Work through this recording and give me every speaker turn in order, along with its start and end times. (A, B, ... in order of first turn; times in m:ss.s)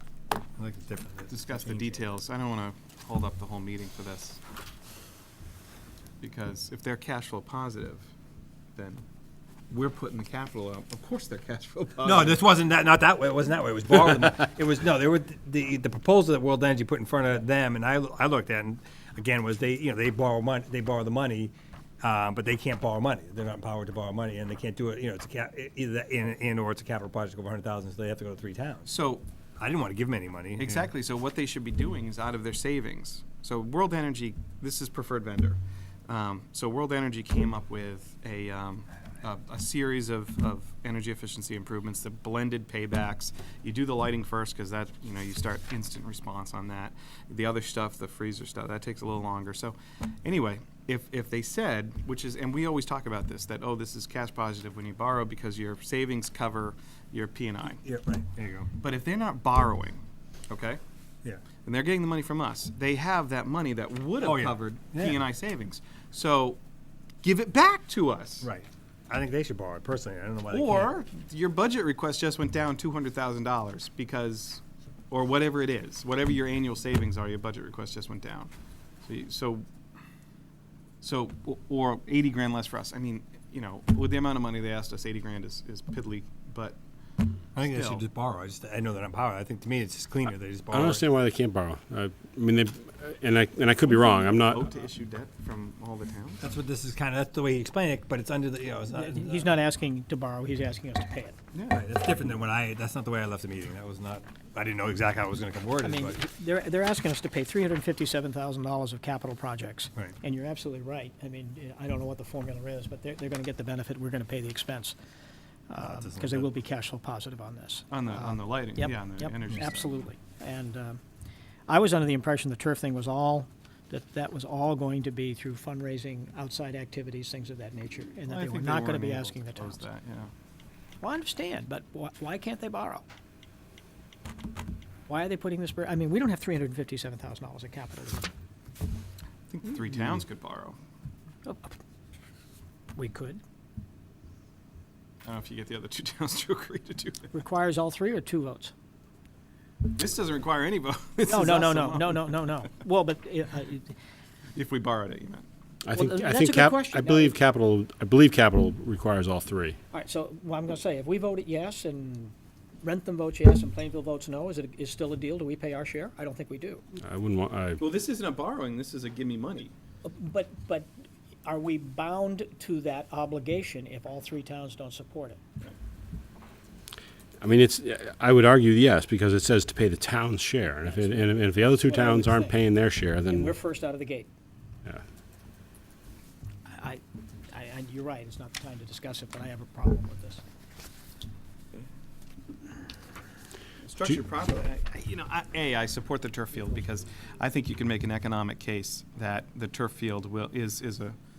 0:00.6-0:02.0 A
0:01.3-0:04.4 B
0:06.2-0:08.1 B
0:08.8-0:09.0 B
0:09.7-0:12.4 B
0:12.0-0:28.9 A
0:28.9-0:29.2 B
0:29.6-0:30.9 A
0:30.6-0:57.8 B
0:57.8-0:58.7 A
0:58.8-1:00.8 B
1:01.6-1:06.6 B
1:04.2-1:05.2 A
1:07.2-1:08.5 B
1:08.4-1:10.9 A
1:10.5-1:18.5 B
1:19.0-1:19.7 B
1:21.0-1:26.8 B
1:27.6-1:31.0 A
1:27.6-1:28.0 B
1:30.7-1:34.6 C
1:34.1-1:36.4 B
1:36.4-1:39.5 A
1:38.9-1:41.4 D
1:41.7-1:46.2 A
1:45.8-1:55.0 D
1:55.7-2:01.0 D
1:55.8-1:56.5 A
1:57.9-1:59.9 B
2:01.7-2:09.8 D
2:08.3-2:10.3 B
2:11.0-2:13.0 D
2:15.1-2:18.3 D
2:19.5-2:20.8 B
2:21.5-2:21.7 D
2:23.0-2:23.4 D
2:25.2-2:27.3 B
2:27.3-2:28.7 D
2:30.0-2:32.4 B
2:31.3-2:33.9 D
2:34.6-2:35.5 B
2:35.8-2:39.8 C
2:35.9-2:37.4 D
2:39.9-2:46.8 D
2:47.0-2:47.8 C
2:47.8-2:49.7 B
2:50.0-2:50.9 D
2:51.4-2:55.4 D
2:57.4-3:03.6 C
3:00.8-3:02.6 D
3:03.2-3:04.3 D
3:06.7-3:10.4 D
3:13.8-3:21.2 B